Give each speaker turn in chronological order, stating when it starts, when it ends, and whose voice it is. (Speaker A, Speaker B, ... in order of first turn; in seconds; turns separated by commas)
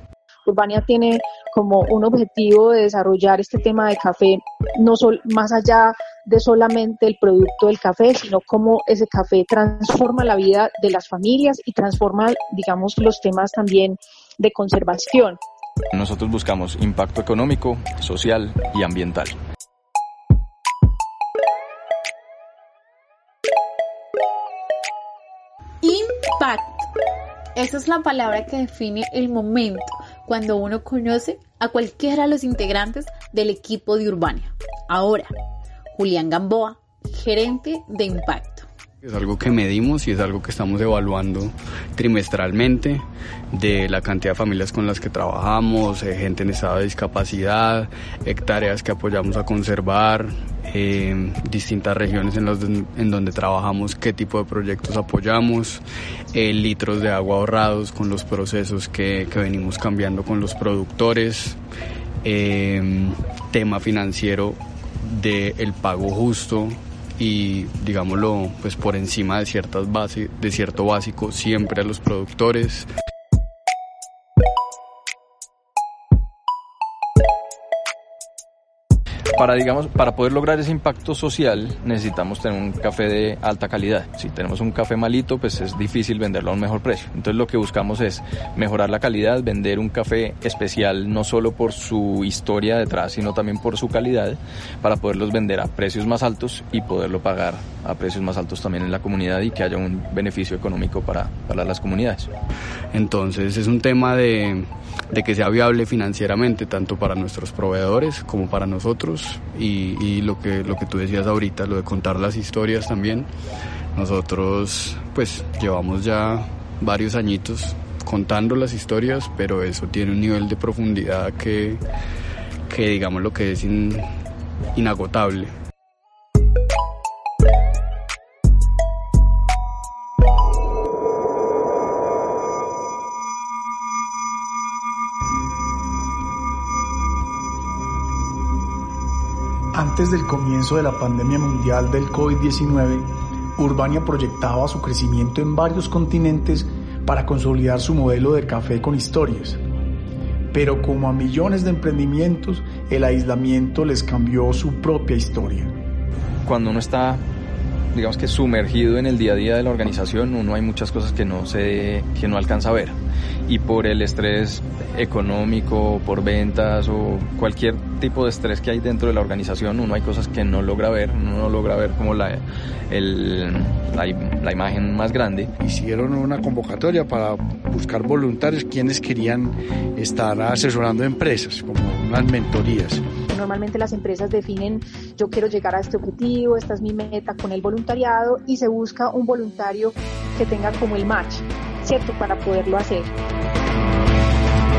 Speaker A: 0.5-15.4, Speaker B: 15.9-19.4, Speaker C: 25.8-26.9, Speaker C: 27.6-35.3, Speaker C: 35.9-38.7, Speaker D: 39.0-61.6, Speaker D: 62.2-72.9, Speaker B: 79.3-102.3, Speaker D: 102.9-113.3, Speaker D: 113.9-121.8, Speaker D: 122.7-124.1, Speaker D: 124.8-125.5, Speaker E: 139.7-149.6, Speaker E: 150.5-155.7, Speaker B: 156.4-157.2, Speaker B: 157.9-163.0, Speaker B: 163.5-175.5, Speaker F: 175.6-183.0, Speaker A: 183.3-193.1